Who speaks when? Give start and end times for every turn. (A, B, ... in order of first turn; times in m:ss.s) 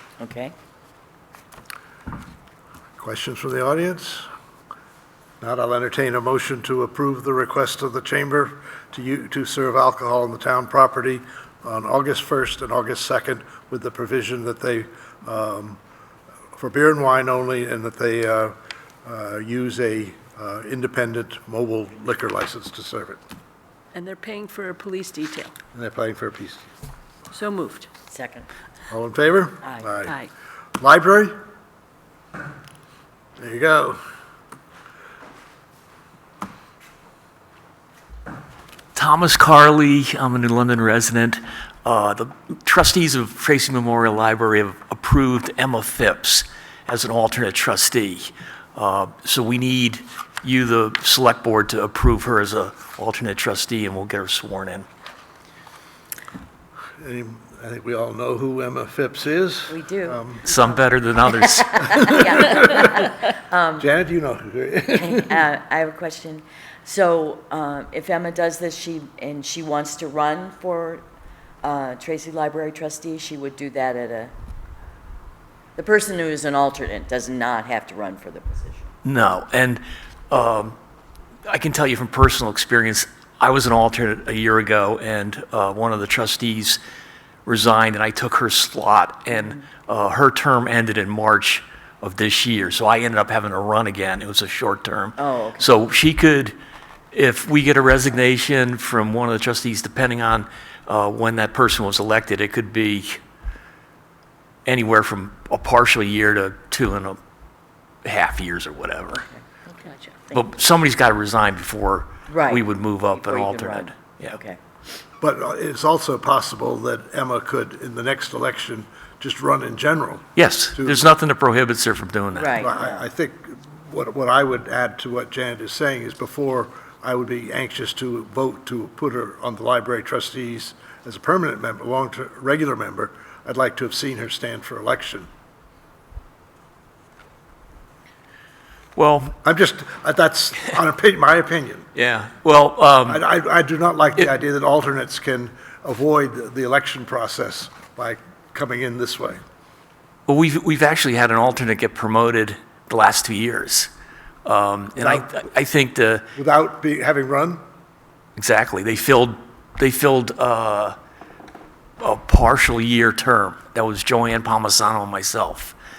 0:00.2-0:00.5 A
0:03.0-0:04.3 B
0:05.4-0:15.8 B
0:16.6-0:23.2 B
0:23.9-0:25.5 C
0:25.7-0:26.6 B
0:27.3-0:27.9 C
0:28.1-0:28.5 A
0:28.9-0:30.1 B
0:29.6-0:29.9 A
0:30.8-0:31.3 B
0:33.4-0:34.0 B
0:38.9-0:54.8 D
0:57.0-1:00.4 B
0:59.7-1:00.2 A
1:00.4-1:02.2 D
1:01.6-1:03.8 A
1:02.4-1:02.8 B
1:03.8-1:05.4 B
1:04.9-1:11.0 A
1:11.6-1:14.3 A
1:15.8-1:18.9 A
1:19.0-1:20.8 D
1:21.4-1:26.8 D
1:27.4-1:36.5 D
1:29.3-1:29.6 A
1:35.2-1:35.8 A
1:37.1-1:43.2 D
1:44.6-1:47.2 D
1:48.0-1:49.3 D
1:49.3-1:50.4 A
1:50.3-1:54.4 D
1:52.3-1:54.6 A
1:55.2-2:00.2 B
2:00.4-2:02.6 D
2:00.8-2:01.0 B
2:02.3-2:03.0 A
2:02.6-2:15.3 B
2:19.0-2:19.4 D
2:19.4-2:21.9 B
2:21.9-2:23.2 D
2:23.0-2:29.4 B
2:30.3-2:33.9 D
2:34.4-2:36.2 D
2:35.0-2:35.2 B
2:36.4-2:37.6 B
2:38.4-2:41.0 D
2:42.0-2:45.7 D